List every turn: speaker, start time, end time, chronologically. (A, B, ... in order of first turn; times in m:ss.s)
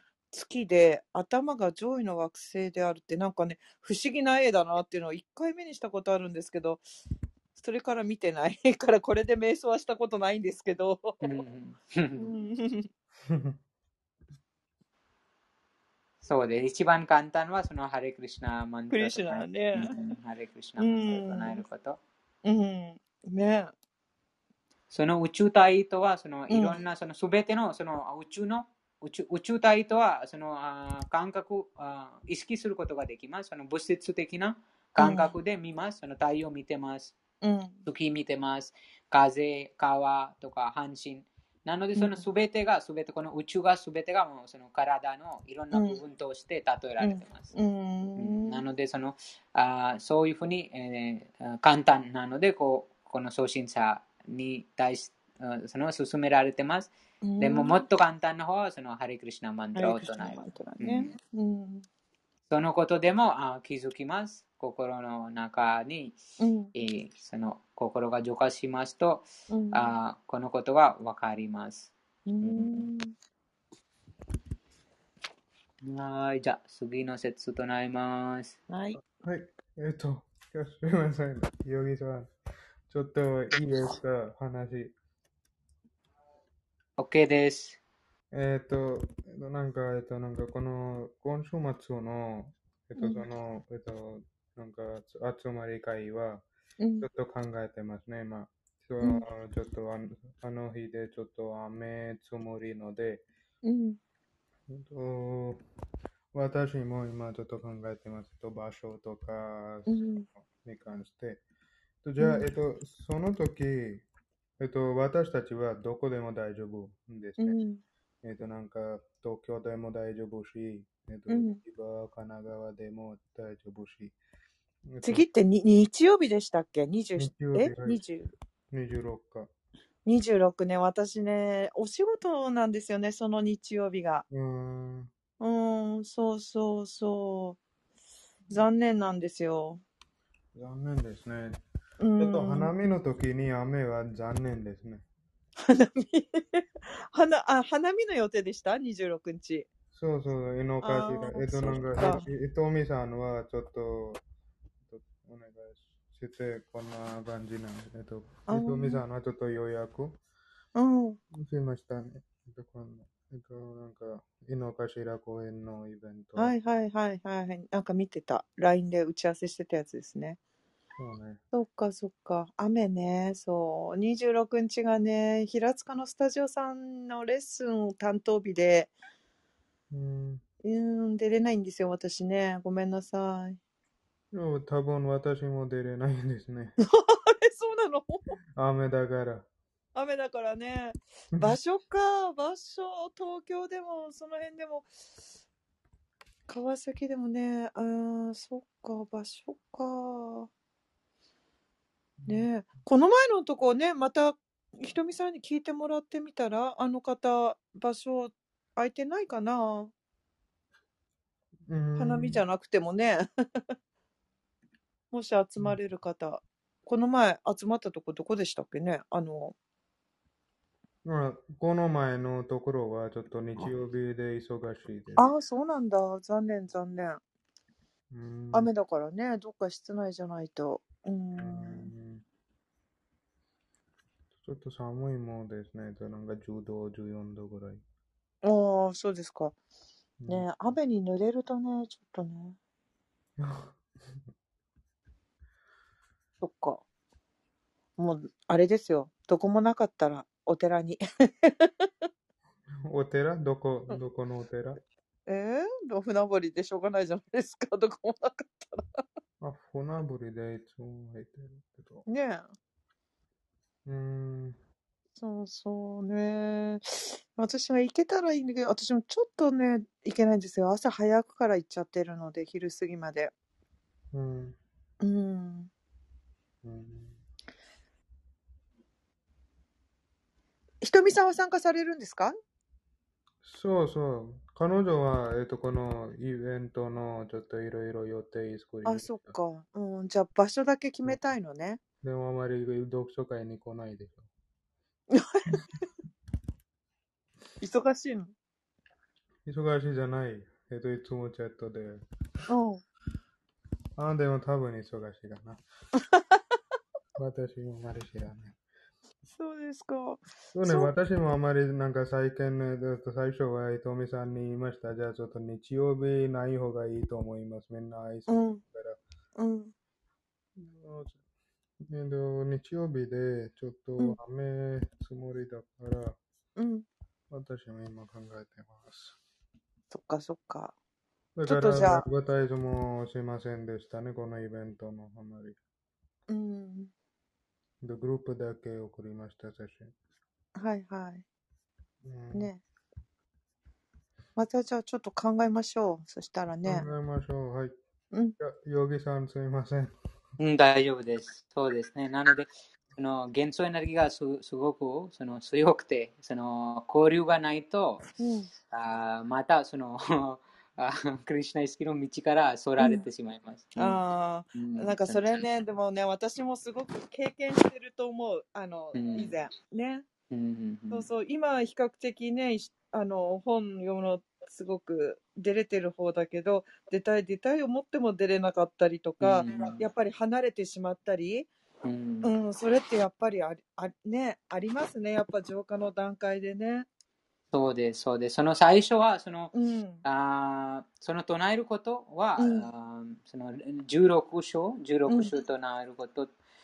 0:00.3-0:06.8 A
0:07.6-0:11.2 A
0:11.2-0:12.3 B
0:12.2-0:12.9 A
0:13.3-0:13.6 C
0:16.2-0:22.0 B
0:18.9-0:20.0 A
0:20.8-0:21.6 A
0:22.4-0:23.7 A
0:24.9-0:37.2 B
0:26.5-0:26.8 A
0:35.0-0:35.3 A
0:37.4-0:37.8 A
0:37.9-0:47.5 B
0:42.0-0:42.2 A
0:45.7-0:46.0 A
0:47.0-0:48.6 A
0:48.2-1:01.1 B
0:57.2-0:57.8 A
0:59.8-1:01.8 A
1:02.5-1:06.2 B
1:06.4-1:06.7 A
1:06.7-1:12.8 B
1:09.5-1:09.9 A
1:12.3-1:13.1 A
1:15.8-1:18.6 B
1:18.7-1:19.0 A
1:19.1-1:22.3 C
1:22.9-1:24.9 C
1:27.0-1:27.8 B
1:28.3-1:36.4 C
1:33.0-1:33.2 A
1:36.8-1:37.1 A
1:37.0-1:43.2 C
1:43.6-1:44.0 A
1:44.7-1:45.6 C
1:46.4-1:51.4 C
1:49.9-1:50.3 A
1:52.0-1:54.0 C
1:54.6-1:57.6 C
1:57.4-1:57.8 A
1:58.2-2:04.2 C
2:01.3-2:01.6 A
2:04.9-2:05.2 C
2:05.0-2:08.3 A
2:07.2-2:08.0 C
2:08.7-2:09.5 C
2:10.1-2:14.2 A
2:14.3-2:15.1 C
2:15.4-2:17.6 A
2:18.5-2:19.8 A
2:20.6-2:21.6 C
2:22.0-2:22.7 A
2:22.2-2:25.0 C
2:25.7-2:29.7 A
2:29.9-2:34.2 C
2:30.8-2:32.2 A
2:34.9-2:40.2 C
2:38.5-2:39.0 A
2:40.8-2:41.2 A
2:41.3-2:46.5 C
2:46.4-2:50.4 A
2:51.0-2:51.4 C
2:51.5-2:58.9 A
2:59.9-3:00.4 C
3:00.6-3:03.6 A
3:04.3-3:06.8 C
3:06.8-3:08.4 A
3:08.6-3:09.5 C
3:10.0-3:14.9 A
3:16.5-3:20.5 A
3:22.2-3:22.5 C
3:22.3-3:29.9 A
3:31.7-3:32.4 C
3:32.0-3:33.2 A
3:35.1-3:39.6 A
3:41.0-3:45.3 C
3:45.2-3:47.2 A
3:48.1-3:48.7 C
3:48.5-3:51.9 A
3:51.4-3:52.2 C
3:54.4-3:57.8 C
3:58.4-3:59.6 A
4:00.2-4:00.5 C
4:00.3-4:02.6 A
4:03.4-4:03.8 C
4:06.4-4:06.8 A
4:08.0-4:12.1 A
4:12.8-4:14.8 C
4:15.3-4:18.8 A
4:19.4-4:22.1 C
4:22.1-4:22.5 A
4:23.9-4:24.6 C
4:25.2-4:33.3 A
4:34.1-4:34.6 C
4:35.0-4:35.7 A
4:36.6-4:37.2 C
4:40.8-4:42.4 A
4:43.4-4:49.4 C
4:48.8-4:51.8 A
4:52.0-4:54.3 C
4:55.1-4:55.6 A
4:57.6-4:58.3 A
4:59.5-5:02.0 C
5:02.5-5:02.8 A
5:04.0-5:05.6 C
5:06.0-5:06.6 A
5:07.2-5:08.6 C
5:09.3-5:10.9 A
5:10.5-5:19.0 C
5:18.3-5:18.6 A
5:19.4-5:19.7 A
5:20.6-5:21.2 C
5:21.8-5:26.2 C
5:26.6-5:26.9 A
5:27.3-5:29.2 C
5:29.9-5:30.8 A
5:31.4-5:35.6 C
5:31.5-5:32.0 A
5:36.3-5:36.9 A
5:37.8-5:39.9 C
5:40.6-5:41.2 A
5:42.0-5:42.5 C
5:42.3-5:42.6 A
5:44.4-5:46.8 A
5:46.6-5:47.8 C
5:48.4-5:49.9 C
5:50.4-5:58.0 B
5:58.2-5:58.5 A
5:58.7-6:04.0 B
6:03.8-6:10.1 A
6:04.5-6:05.2 B
6:08.9-6:09.3 B
6:10.3-6:11.1 B
6:10.9-6:21.5 A
6:19.2-6:19.8 B
6:21.8-6:22.3 B
6:22.2-6:26.9 A
6:27.5-6:29.5 B
6:29.5-6:30.0 A
6:30.0-6:36.3 B
6:32.4-6:32.7 A